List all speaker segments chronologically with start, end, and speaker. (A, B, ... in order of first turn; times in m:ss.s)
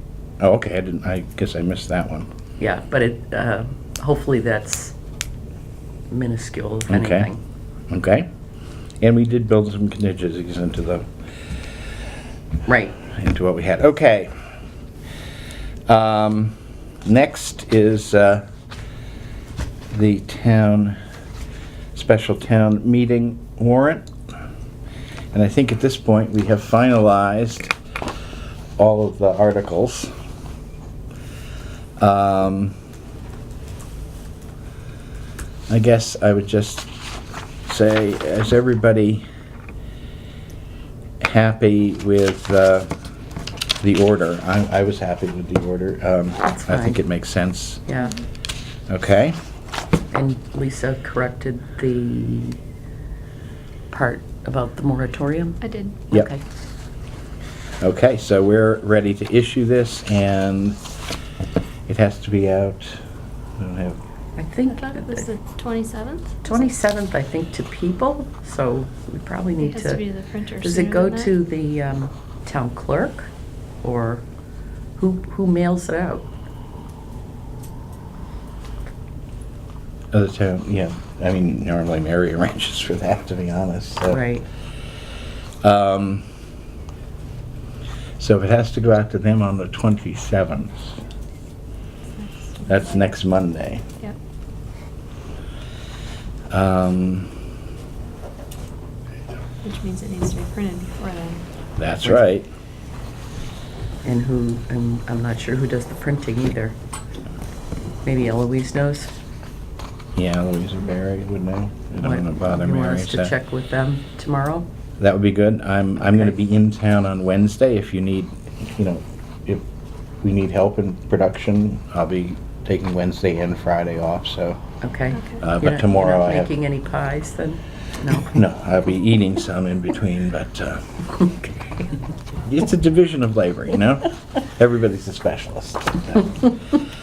0:00.4-0:02.3 A
0:02.6-0:05.0 B
0:06.1-0:07.4 B
0:06.9-0:07.3 A
0:07.9-0:08.3 A
0:09.0-0:11.1 A
0:12.7-0:13.0 B
0:13.1-0:14.3 A
0:15.9-0:18.5 A
0:19.9-0:21.0 A
0:21.9-0:24.1 A
0:25.3-0:27.7 A
0:28.8-0:30.1 A
0:32.0-0:32.8 A
0:35.7-0:36.9 A
0:37.7-0:39.2 A
0:41.2-0:42.9 A
0:43.8-0:47.8 A
0:46.4-0:47.0 B
0:47.9-0:48.1 B
0:48.9-0:49.4 A
0:50.1-0:52.6 B
0:53.9-0:56.4 B
0:55.6-0:56.0 C
0:57.8-1:00.8 A
1:01.9-1:03.0 A
1:03.6-1:04.0 A
1:04.4-1:05.3 B
1:04.7-1:06.7 C
1:06.4-1:10.0 B
1:09.6-1:11.3 C
1:10.6-1:13.3 B
1:13.8-1:14.2 B
1:15.0-1:16.3 B
1:20.1-1:24.2 A
1:24.1-1:24.4 B
1:25.6-1:26.2 A
1:28.2-1:30.9 A
1:32.2-1:33.1 C
1:32.7-1:33.8 A
1:36.5-1:37.3 A
1:39.6-1:41.4 C
1:41.8-1:42.5 A
1:44.0-1:46.8 B
1:48.0-1:49.1 B
1:50.2-1:53.4 A
1:52.0-1:54.7 B
1:55.0-1:59.6 A
2:00.2-2:04.6 A
2:04.8-2:08.3 B
2:05.4-2:06.5 A
2:08.2-2:11.0 A
2:11.4-2:11.9 B
2:12.4-2:16.6 A